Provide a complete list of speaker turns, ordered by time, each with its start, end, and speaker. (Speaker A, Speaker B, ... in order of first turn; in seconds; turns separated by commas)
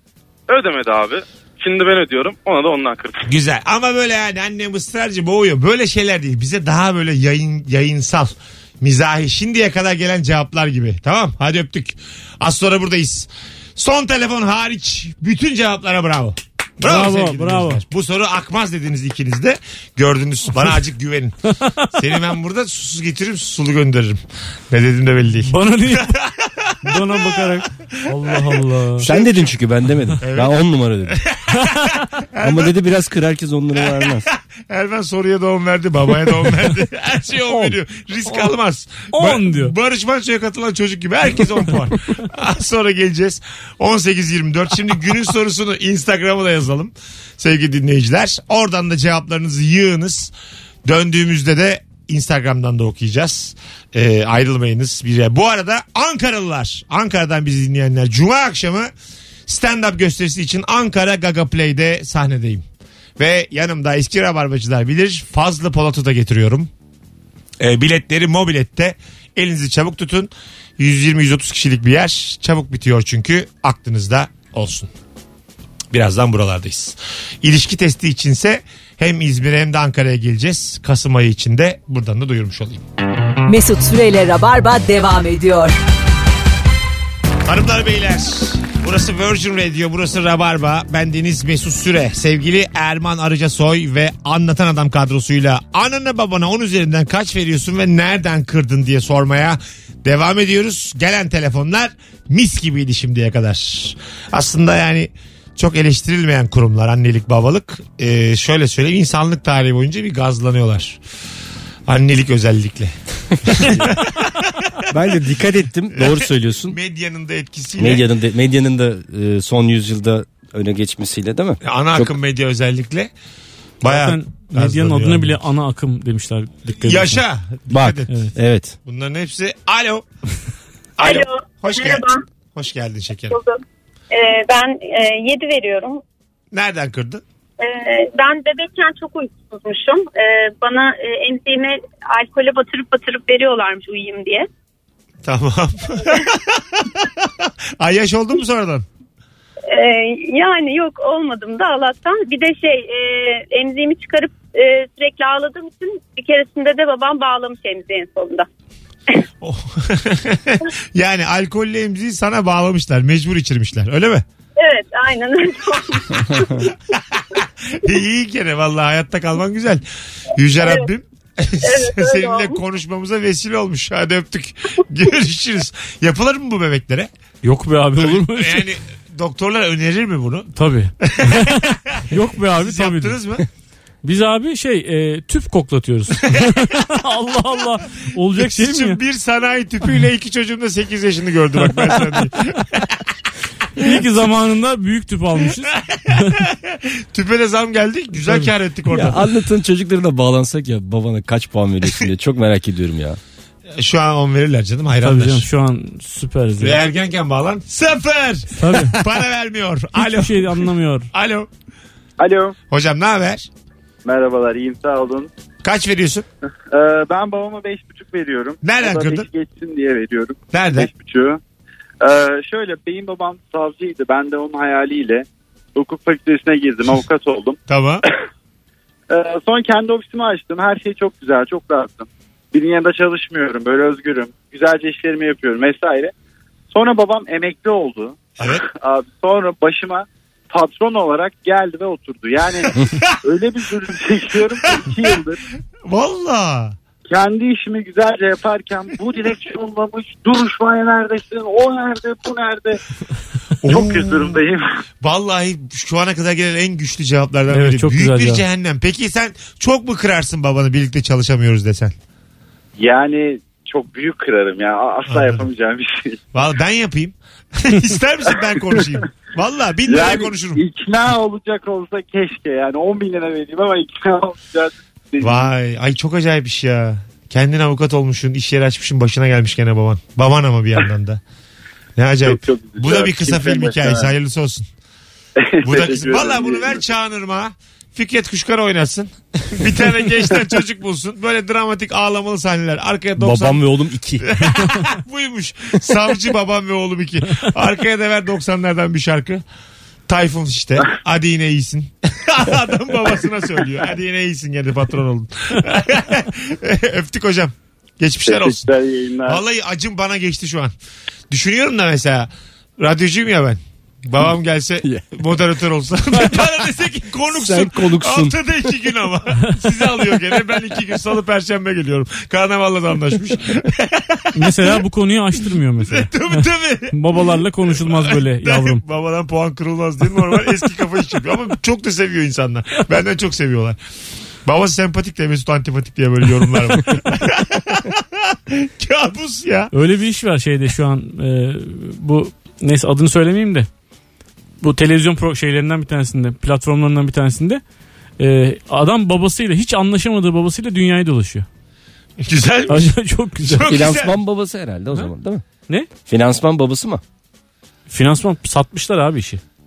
Speaker A: 0.5-3.2, Speaker B: 3.3-21.4, Speaker C: 16.8-17.8, Speaker B: 21.9-29.5, Speaker C: 25.4-26.1, Speaker C: 26.8-29.1, Speaker D: 29.0-31.2, Speaker B: 30.2-30.5, Speaker B: 31.1-31.4, Speaker C: 31.6-31.9, Speaker B: 32.3-32.8, Speaker D: 32.4-34.2, Speaker B: 33.9-50.3, Speaker C: 39.1-39.7, Speaker B: 50.9-58.9, Speaker B: 59.5-62.6, Speaker B: 63.2-66.7, Speaker B: 67.6-74.9, Speaker B: 75.9-82.8, Speaker E: 83.4-85.8, Speaker B: 87.4-111.0, Speaker B: 111.9-112.9, Speaker B: 113.4-114.5, Speaker D: 113.6-113.9, Speaker D: 114.9-116.8, Speaker B: 116.0-118.1, Speaker D: 117.8-122.1, Speaker B: 121.6-123.1, Speaker B: 123.8-125.4, Speaker C: 123.8-127.2, Speaker B: 126.8-128.1, Speaker D: 127.7-128.8, Speaker B: 128.8-130.0, Speaker B: 131.0-133.4, Speaker F: 131.0-132.2, Speaker F: 133.3-136.0, Speaker B: 136.5-137.2, Speaker F: 137.6-144.5, Speaker B: 145.2-148.8, Speaker F: 149.7-158.5, Speaker B: 159.4-164.2, Speaker F: 164.6-166.7, Speaker B: 166.9-169.8, Speaker B: 170.3-177.1, Speaker F: 171.6-172.6, Speaker C: 177.4-178.7, Speaker B: 178.0-182.0, Speaker C: 180.6-183.2, Speaker B: 182.5-183.4, Speaker C: 184.0-189.0, Speaker B: 188.3-192.9, Speaker C: 193.8-196.4, Speaker B: 195.8-199.2, Speaker D: 198.9-203.2, Speaker B: 203.8-205.5, Speaker C: 205.0-206.8, Speaker B: 206.6-210.6, Speaker C: 208.6-209.0, Speaker C: 209.9-211.1, Speaker B: 211.1-211.5, Speaker G: 212.2-212.5, Speaker B: 212.7-213.5, Speaker G: 214.0-215.3, Speaker B: 215.6-216.2, Speaker G: 216.7-221.4, Speaker B: 218.6-219.3, Speaker B: 220.5-220.9, Speaker G: 222.0-227.6, Speaker B: 227.7-228.0, Speaker G: 229.1-236.1, Speaker G: 236.7-242.7, Speaker G: 243.2-245.4, Speaker B: 245.8-246.8, Speaker G: 247.1-252.8, Speaker B: 253.6-254.4, Speaker G: 253.7-254.7, Speaker B: 255.0-261.9, Speaker C: 257.5-258.4, Speaker G: 262.8-266.2, Speaker B: 265.1-265.4, Speaker B: 266.3-270.6, Speaker G: 268.2-269.0, Speaker G: 269.9-275.5, Speaker B: 275.2-281.2, Speaker B: 282.0-284.6, Speaker G: 282.2-284.1, Speaker G: 285.4-286.8, Speaker B: 285.6-293.6, Speaker D: 293.2-294.3, Speaker B: 294.2-299.4, Speaker B: 300.1-308.7, Speaker G: 308.2-309.4, Speaker B: 309.3-310.7, Speaker B: 311.3-324.5, Speaker D: 314.8-315.1, Speaker D: 317.3-318.4, Speaker C: 324.3-328.8, Speaker B: 325.8-326.9, Speaker B: 327.7-333.8, Speaker B: 334.4-339.7, Speaker C: 339.7-343.7, Speaker C: 344.6-347.6, Speaker C: 348.2-351.5, Speaker B: 352.2-354.1, Speaker C: 352.7-353.7, Speaker D: 353.6-355.4, Speaker D: 356.1-357.0, Speaker C: 357.9-359.4